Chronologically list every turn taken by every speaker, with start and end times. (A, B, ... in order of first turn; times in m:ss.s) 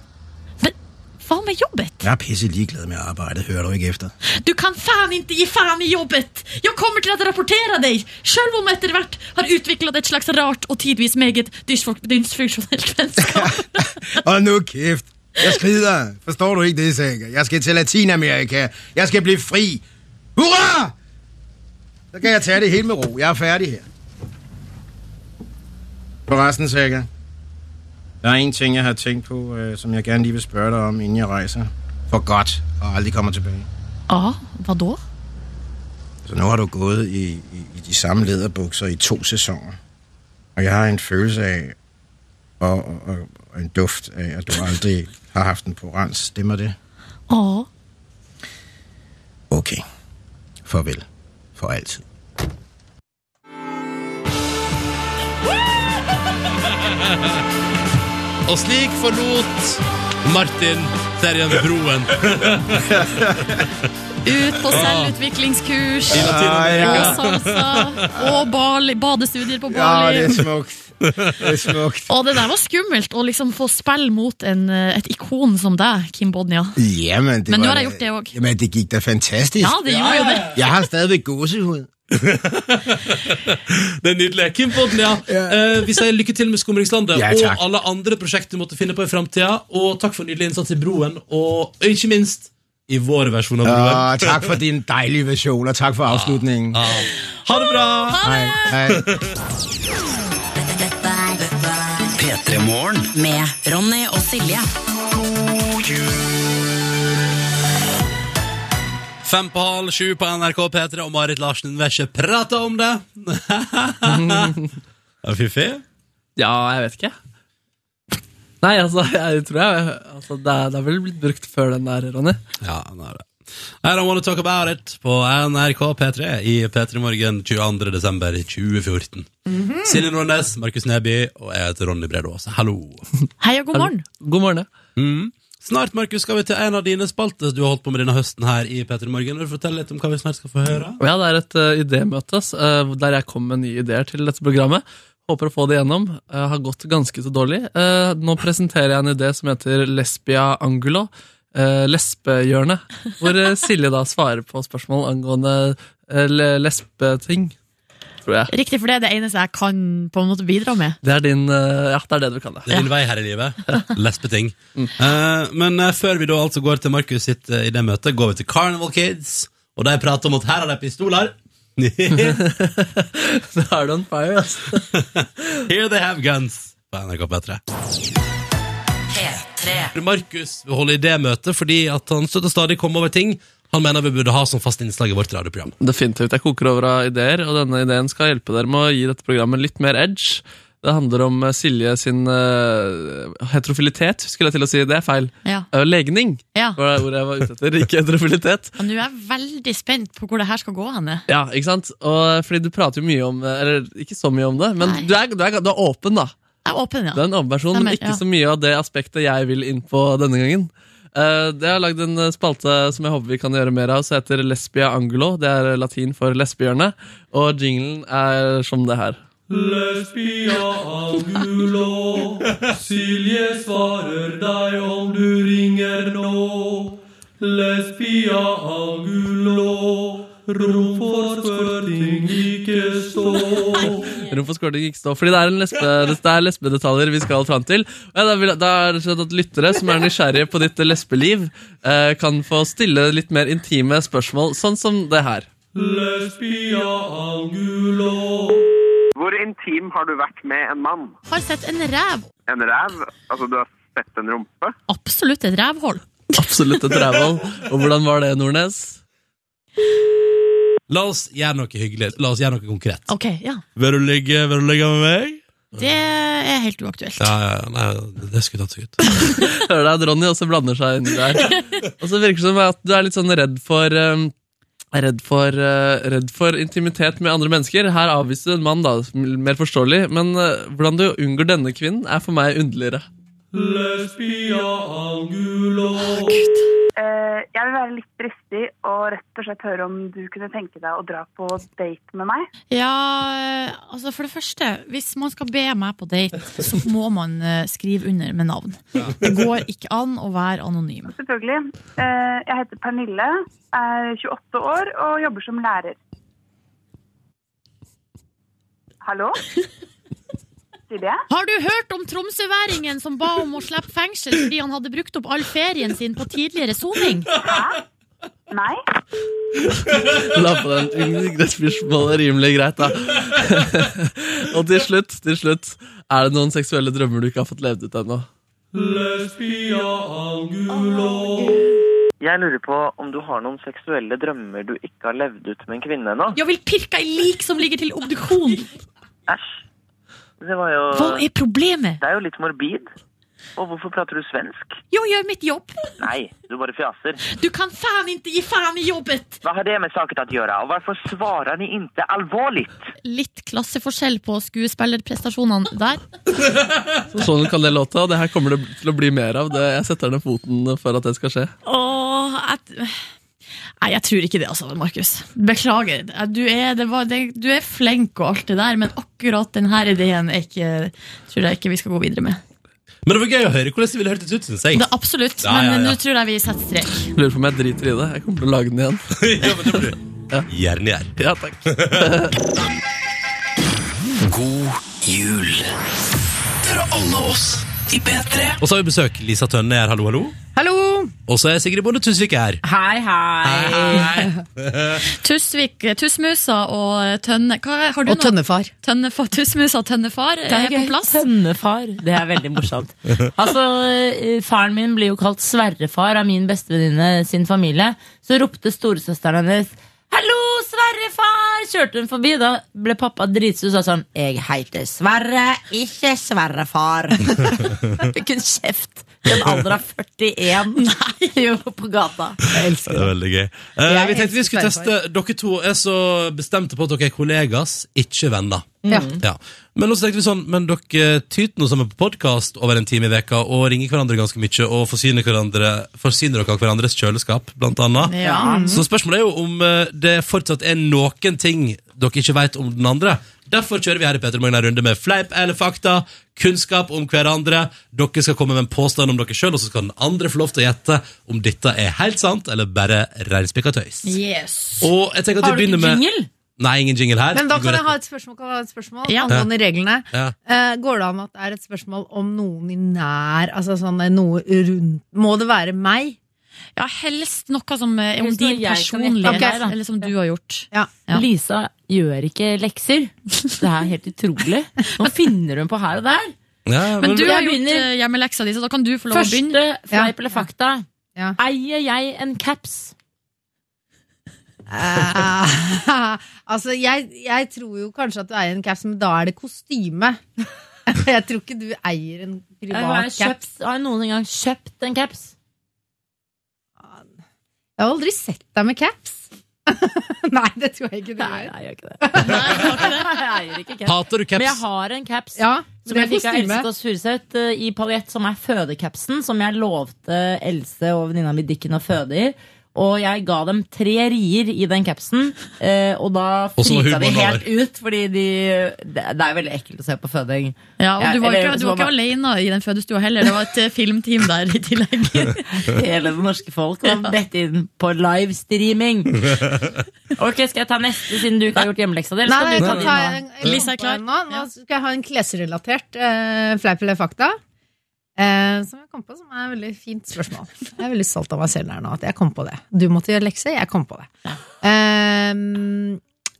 0:00.6-0:02.0 A
0:02.0-0:04.1 B
0:04.3-0:14.2 A
0:13.2-0:19.8 B
0:20.4-0:20.9 B
0:22.1-0:23.8 B
0:26.3-0:27.1 B
0:28.2-0:33.7 B
0:34.1-0:35.0 A
0:36.2-0:39.8 B
0:40.6-0:41.8 B
0:42.6-0:46.8 B
0:47.3-0:47.7 A
0:49.5-0:49.8 B
0:50.6-0:52.0 B
0:58.4-1:03.2 C
1:02.9-1:03.6 B
1:04.2-1:10.4 A
1:04.7-1:05.1 C
1:06.1-1:08.0 C
1:06.2-1:07.2 B
1:09.7-1:12.1 B
1:12.1-1:16.8 A
1:16.8-1:21.9 B
1:17.5-1:18.3 A
1:19.6-1:20.6 A
1:19.9-1:20.6 C
1:22.1-1:34.5 C
1:25.3-1:25.8 B
1:27.1-1:27.6 B
1:33.6-1:36.8 B
1:36.1-1:38.3 C
1:38.2-1:39.0 B
1:38.2-1:38.5 A
1:38.9-1:39.3 C
1:40.6-1:42.1 D
1:42.2-1:43.1 E
1:43.1-1:44.7 D
1:49.2-1:54.5 C
1:54.0-1:54.7 F
1:55.2-1:55.8 C
1:56.4-1:57.1 F
1:58.6-2:02.4 F
2:02.6-2:03.3 C
2:03.8-2:09.3 C
2:09.5-2:10.0 G
2:09.8-2:13.0 C
2:13.4-2:14.0 A
2:13.7-2:14.7 F
2:15.0-2:21.0 C
2:21.0-2:37.5 F
2:38.2-2:38.5 F
2:38.5-2:41.0 A
2:41.0-2:42.7 F
2:42.7-2:52.4 C
2:52.2-2:54.8 F
2:55.2-2:57.6 C
2:59.1-2:59.9 D
2:59.9-3:05.7 C
3:05.8-3:18.8 F
3:16.5-3:16.8 A
3:18.8-3:21.2 A
3:21.3-3:26.3 F
3:24.8-3:25.1 A
3:26.6-3:28.2 A
3:27.1-3:44.3 F
3:45.0-3:46.0 F
3:50.5-4:05.5 F
4:09.2-4:11.1 H
4:11.3-4:12.3 A
4:12.5-4:14.7 H
4:14.9-4:16.1 A
4:16.3-4:19.0 F
4:20.9-4:23.1 C
4:23.1-4:23.6 A
4:23.8-4:25.8 C
4:25.8-4:27.3 A
4:27.2-4:29.0 C
4:29.4-4:34.3 F
4:34.9-4:43.0 F
4:46.0-4:46.7 A
4:47.0-4:52.5 I
4:52.7-5:01.1 A
5:01.1-5:06.0 I
5:09.0-5:09.4 I
5:10.9-5:11.2 I
5:11.3-5:17.3 A
5:17.4-5:17.8 I
5:18.5-5:18.8 I
5:20.0-5:28.2 F
5:32.2-5:36.4 J
5:36.4-5:38.7 A
5:39.3-5:39.6 J
5:40.4-5:41.2 J
5:40.9-5:42.0 A
5:42.0-5:42.9 J
5:43.6-5:44.8 J
5:44.9-5:45.8 A
5:46.0-5:47.2 J
5:47.3-5:49.4 A
5:49.4-5:52.8 J
5:53.0-5:56.0 A
5:57.1-6:01.5 F
6:01.6-6:03.0 A
6:03.8-6:12.4 A
6:13.0-6:14.9 C
6:14.7-6:17.1 A
6:15.4-6:16.0 C
6:17.1-6:19.8 F
6:19.2-6:21.1 C
6:21.2-6:22.3 F
6:21.7-6:22.0 C
6:24.2-6:25.7 E
6:26.6-6:28.6 E
6:28.6-6:30.4 C
6:30.5-6:31.1 G
6:31.3-6:32.6 C
6:32.6-6:34.1 K
6:33.4-6:35.0 C
6:35.0-6:41.2 A
6:38.0-6:38.7 G
6:40.5-7:02.4 K
7:02.5-7:03.1 G
7:02.6-7:18.1 C
7:03.8-7:04.9 G
7:08.8-7:09.2 K
7:08.9-7:09.2 G
7:18.1-7:18.7 A
7:18.2-7:18.8 G
7:18.7-7:34.1 C
7:34.0-7:34.9 A
7:34.8-7:36.0 C
7:35.4-7:36.3 K
7:36.6-7:38.0 C
7:37.3-7:46.2 G
7:39.1-7:39.4 A
7:46.8-7:51.2 A
7:48.2-7:49.8 K
7:49.2-7:49.7 G
7:50.7-7:51.0 G
7:51.1-7:56.3 K
7:56.6-7:57.3 C
7:57.0-7:59.6 A
7:57.0-7:57.9 K
7:59.1-8:00.8 K
7:59.9-8:00.4 G
8:01.4-8:02.9 K
8:04.7-8:10.2 G
8:10.9-8:13.4 G
8:12.7-8:15.3 K
8:16.8-8:17.1 G
8:17.8-8:22.8 G
8:21.2-8:41.9 K
8:22.2-8:23.1 A
8:23.8-8:24.6 C
8:25.4-8:26.7 G
8:36.6-8:37.4 C
8:40.8-8:45.4 A
8:45.5-8:49.5 K
8:46.8-8:47.1 A
8:50.2-8:53.2 K
8:52.2-8:57.4 G
8:52.7-8:54.5 A
8:58.2-9:06.0 G